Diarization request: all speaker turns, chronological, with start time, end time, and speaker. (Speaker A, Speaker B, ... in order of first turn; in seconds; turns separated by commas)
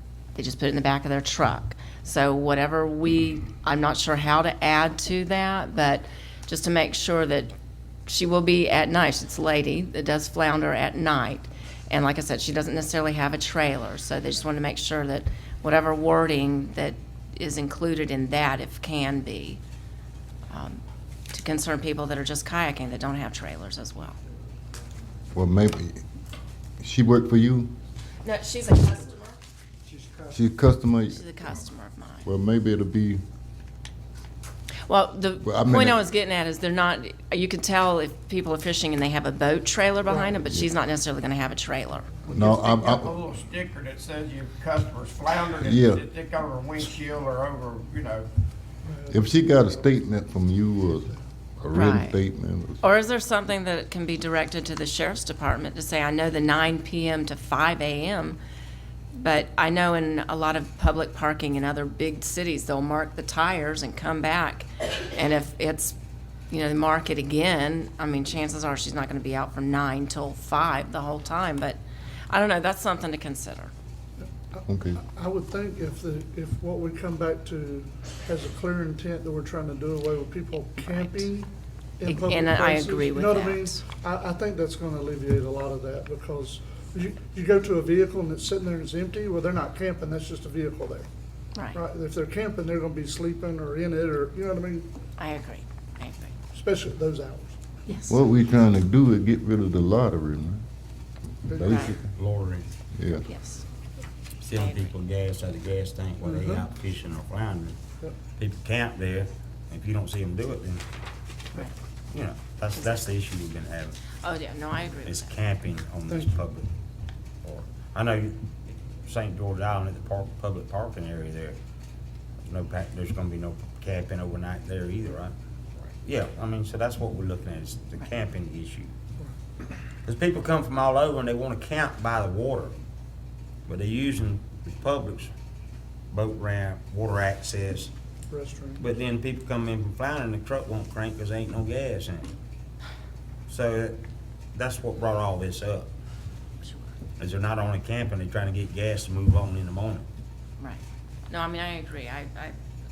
Speaker A: 0.3-7.5, Speaker A: 8.1-19.6, Speaker A: 20.5-24.2, Speaker B: 25.3-26.0, Speaker B: 26.8-27.7, Speaker A: 28.2-29.4, Speaker B: 30.3-31.2, Speaker A: 31.1-32.3, Speaker B: 32.2-33.2, Speaker A: 34.9-42.2, Speaker B: 35.4-36.0, Speaker B: 42.3-43.2, Speaker C: 42.3-48.3, Speaker B: 45.6-46.0, Speaker D: 48.9-49.3, Speaker B: 49.1-52.8, Speaker A: 51.7-52.2, Speaker A: 52.8-58.4, Speaker A: 59.1-66.0, Speaker A: 66.5-71.8, Speaker A: 72.3-73.7, Speaker D: 74.5-91.1, Speaker B: 74.7-75.0, Speaker A: 80.8-81.3, Speaker A: 82.0-83.8, Speaker A: 91.5-91.8, Speaker D: 91.7-94.9, Speaker A: 95.2-96.3, Speaker D: 96.5-97.6, Speaker A: 97.9-98.2, Speaker B: 98.1-100.6, Speaker D: 101.5-101.8, Speaker B: 101.5-102.1, Speaker A: 101.6-102.0, Speaker E: 102.1-102.7, Speaker B: 102.9-103.3, Speaker A: 103.3-103.7, Speaker E: 104.4-107.8, Speaker A: 104.5-104.9, Speaker D: 106.2-106.6, Speaker E: 108.4-110.8, Speaker E: 112.1-114.0, Speaker A: 114.2-115.3, Speaker E: 115.1-116.7, Speaker D: 116.1-116.4, Speaker E: 117.4-121.6, Speaker E: 122.4-125.3, Speaker E: 126.0-128.9, Speaker E: 130.1-132.8, Speaker E: 133.7-135.3, Speaker E: 136.1-137.9, Speaker D: 138.3-138.8, Speaker E: 138.8-142.3, Speaker E: 143.5-144.0, Speaker E: 144.5-145.9, Speaker A: 146.6-146.9, Speaker E: 147.2-150.1, Speaker A: 150.6-152.6